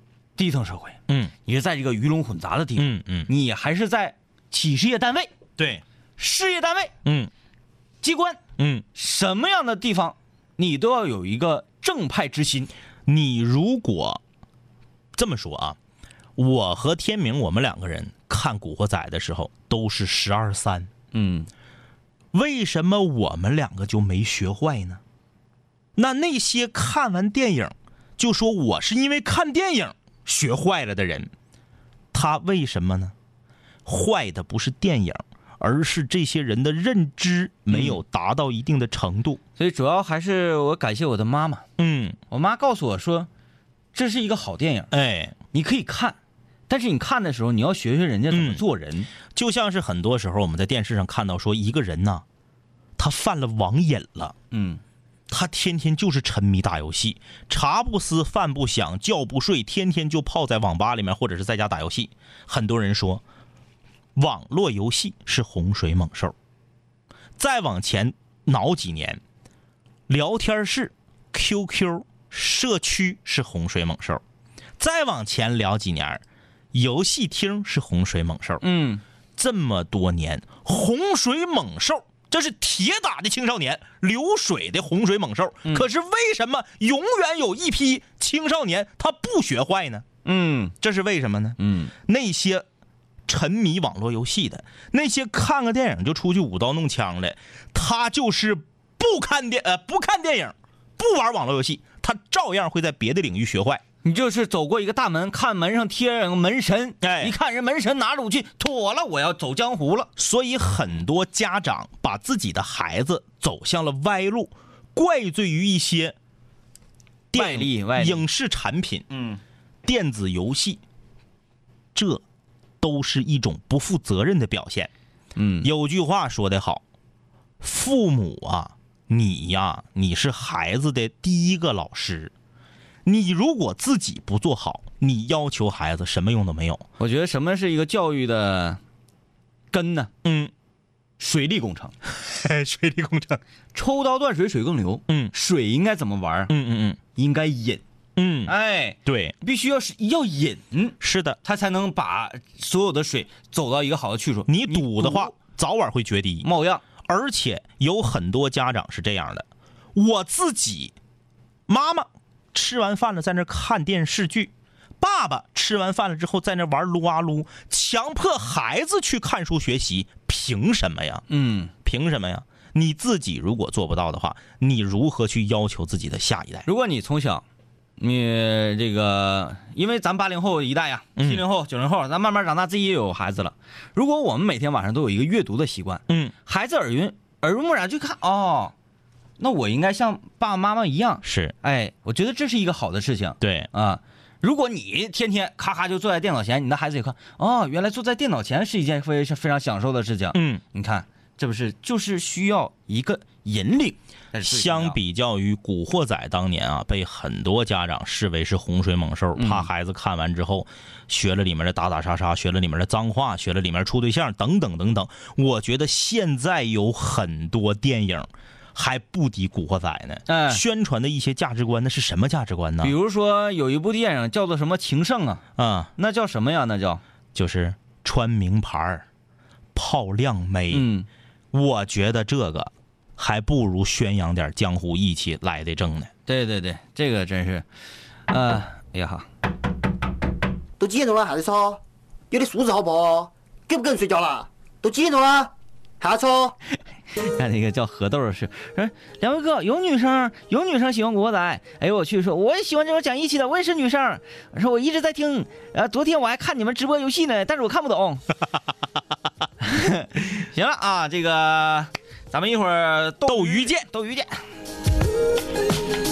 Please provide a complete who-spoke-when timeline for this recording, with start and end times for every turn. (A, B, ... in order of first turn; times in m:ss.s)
0:00.4-0:05.3 A
0:02.8-0:03.3 B
0:05.6-0:05.8 B
0:06.2-0:06.9 A
0:07.0-0:07.3 B
0:08.0-0:08.4 A
0:08.6-0:08.9 B
0:09.0-0:12.7 A
0:13.1-0:14.2 B
0:15.2-0:15.8 B
0:16.4-0:20.9 B
0:21.1-0:21.5 A
0:22.3-0:25.0 B
0:26.0-0:31.3 B
0:32.1-0:33.1 B
0:33.9-0:39.4 B
0:37.7-0:38.0 A
0:39.6-0:41.6 A
0:41.8-0:42.2 B
0:42.3-0:43.3 A
0:43.9-0:44.9 A
0:44.9-0:45.4 B
0:45.5-0:46.2 A
0:46.7-0:49.1 A
0:48.3-0:48.6 B
0:49.3-0:52.2 B
0:53.0-0:54.4 B
0:54.5-0:54.8 A
0:55.3-1:03.2 B
1:04.2-1:06.4 B
1:07.4-1:09.2 B
1:10.1-1:14.2 B
1:14.8-1:16.2 B
1:16.7-1:18.6 B
1:18.6-1:19.0 A
1:19.4-1:30.1 B
1:30.2-1:30.7 A
1:30.8-1:32.6 B
1:31.6-1:31.9 A
1:33.3-1:43.8 B
1:44.0-1:50.1 A
1:47.0-1:47.4 B
1:50.2-1:56.2 B
1:57.3-1:59.1 B
1:57.3-1:58.2 A
1:59.1-1:59.4 A
1:59.8-2:00.8 B
2:01.9-2:02.2 B
2:02.8-2:04.9 B
2:05.4-2:05.7 A
2:05.6-2:06.8 B
2:07.6-2:12.3 B
2:13.0-2:16.9 B
2:17.0-2:18.8 A
2:19.7-2:20.1 A
2:20.2-2:20.5 B
2:21.2-2:21.9 A
2:22.1-2:23.4 B
2:23.7-2:26.5 A
2:26.5-2:27.0 B
2:27.2-2:27.8 A
2:28.2-2:29.4 B
2:28.5-2:35.3 A
2:31.0-2:31.4 B
2:34.5-2:36.5 B
2:36.4-2:36.8 A
2:37.0-2:41.0 B
2:41.7-2:51.2 B
2:51.3-2:51.7 A
2:51.8-2:56.7 B
2:56.7-2:57.4 A
2:58.0-3:08.7 A
3:01.2-3:01.4 B
3:09.4-3:25.0 A
3:11.2-3:11.6 B
3:13.4-3:13.7 B
3:20.3-3:20.6 B
3:24.4-3:43.0 B
3:29.4-3:29.7 A
3:40.3-3:40.6 A
3:42.8-3:45.4 A
3:45.6-3:45.9 B
3:46.0-3:47.0 A
3:47.4-3:49.0 B
3:49.8-3:50.9 B
3:50.7-3:51.1 A
3:51.5-3:56.1 B
3:56.3-3:57.7 A
3:58.3-3:59.3 A
4:00.8-4:06.6 C
4:07.2-4:18.2 A
4:19.6-4:24.3 A
4:23.3-4:23.9 B